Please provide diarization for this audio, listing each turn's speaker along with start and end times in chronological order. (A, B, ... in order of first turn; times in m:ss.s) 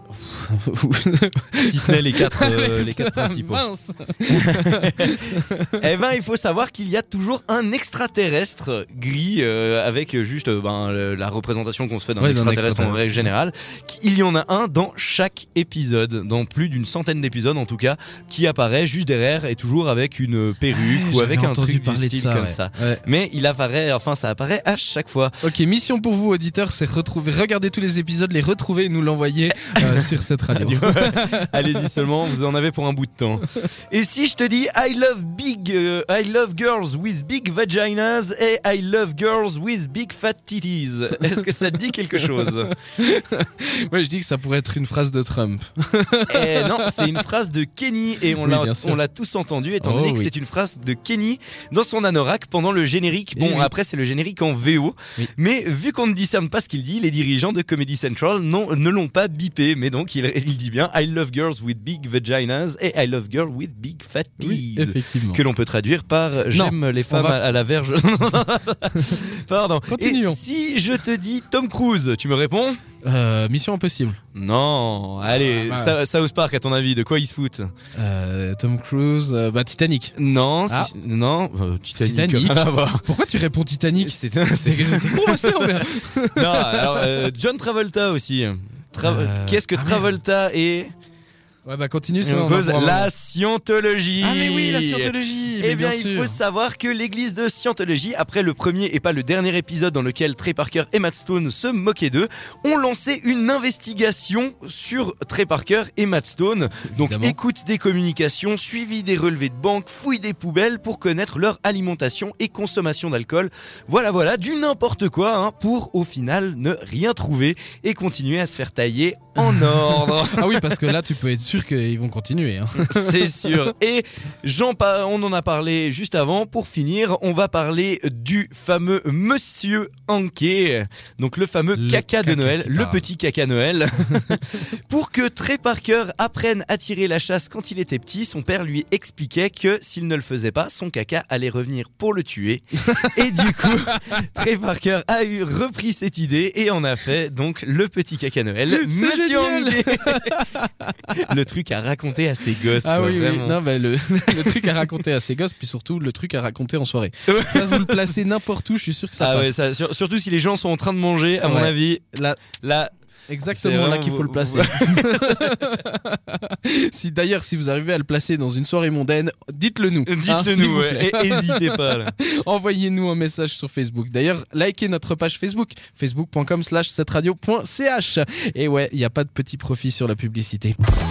0:00.1-0:05.8 A
0:01.6-0:03.7 B
0:04.3-0:25.3 B
0:12.2-0:13.3 A
0:20.7-0:23.0 A
0:25.4-0:31.8 A
0:29.8-0:42.7 B
0:42.3-0:47.2 A
0:46.3-1:12.8 B
0:48.3-0:49.0 A
0:49.8-0:50.3 A
0:53.4-0:53.7 A
1:04.4-1:05.4 A
1:06.5-1:07.4 A
1:09.9-1:10.4 A
1:13.0-1:14.2 A
1:14.3-1:17.7 B
1:15.3-1:16.0 A
1:17.9-1:20.1 A
1:20.2-1:23.1 B
1:22.0-1:27.3 A
1:24.0-1:30.9 B
1:29.0-1:30.1 A
1:31.6-1:33.1 A
1:32.2-2:00.9 B
1:34.2-1:36.4 A
1:46.9-1:47.4 A
1:59.4-2:03.7 A
2:02.8-2:30.4 B
2:11.8-2:13.1 A
2:22.9-2:24.0 A
2:28.7-2:31.2 A
2:31.1-2:33.6 B
2:32.8-2:39.5 A
2:34.3-2:34.9 B
2:37.3-2:38.2 B
2:39.2-2:42.0 B
2:41.4-2:42.4 A
2:42.6-2:42.9 B
2:43.3-3:00.8 A
2:43.5-2:45.5 B
2:50.0-2:52.1 B